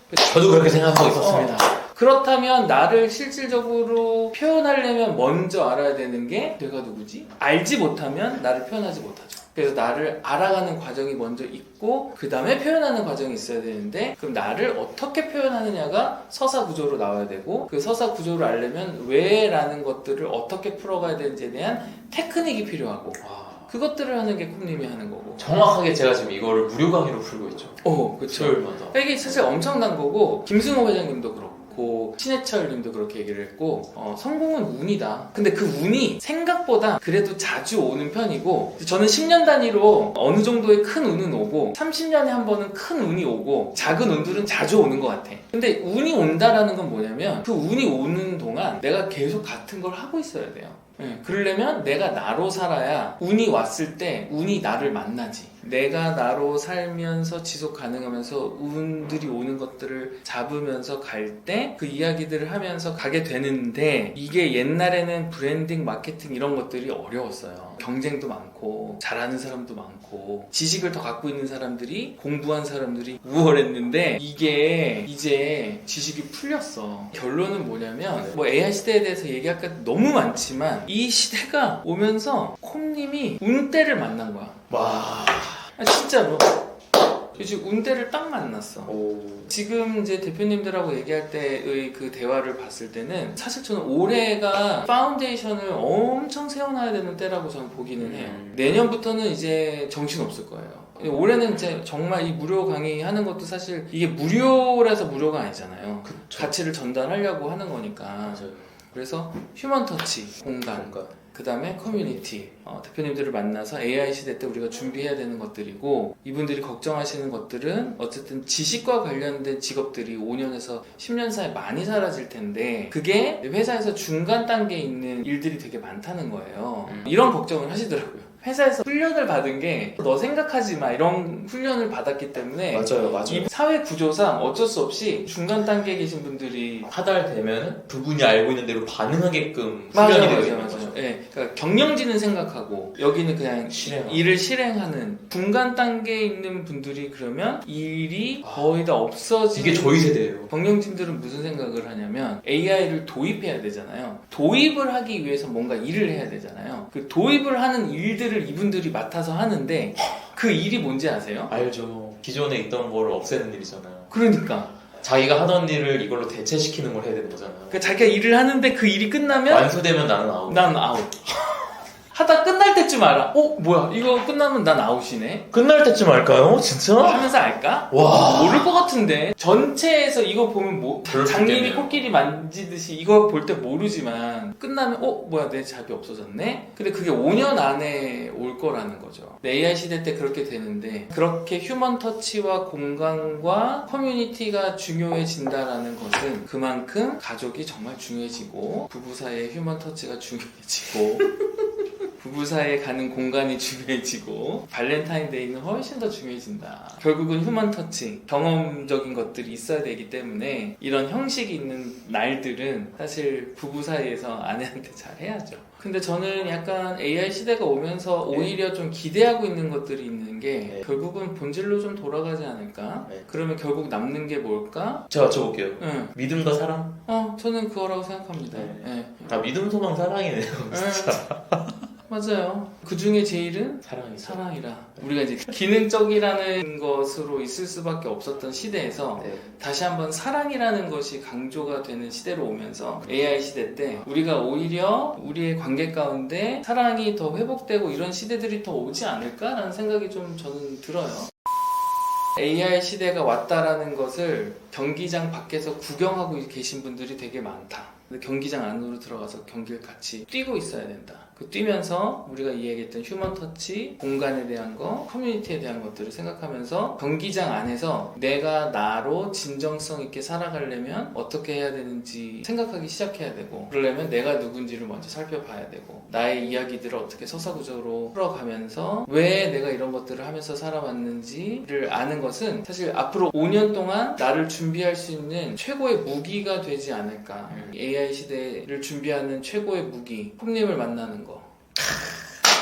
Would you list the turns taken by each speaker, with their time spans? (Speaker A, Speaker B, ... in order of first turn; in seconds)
Speaker A: 0.1-1.7, 23.2-23.7, 25.4-29.3, 84.7-85.7, 88.9-89.5, 98.0-98.7, 106.0-106.5, 108.3-108.7, 110.7-111.1, 111.8-112.3, 126.9-127.2, 132.7-133.5, 136.9-141.0, 143.7-144.3, 148.4-148.7, 149.5-150.5, 161.5-164.1, 165.0-167.8, 169.5-170.7, 175.5-177.3, 177.9-178.7, 181.1-182.0, 218.3-218.5, 225.1-227.0, 228.5-231.8, 233.8-234.5, 239.2-239.4, 287.5-287.8, 291.8-292.2
Speaker B: 1.2-25.4, 27.8-84.6, 85.8-86.7, 87.3-88.9, 89.5-136.9, 139.9-161.5, 164.1-164.7, 167.7-169.7, 170.5-171.2, 172.1-175.5, 177.0-201.3, 202.2-225.1, 225.8-226.1, 227.1-229.3, 230.7-231.2, 232.1-251.3, 252.3-291.5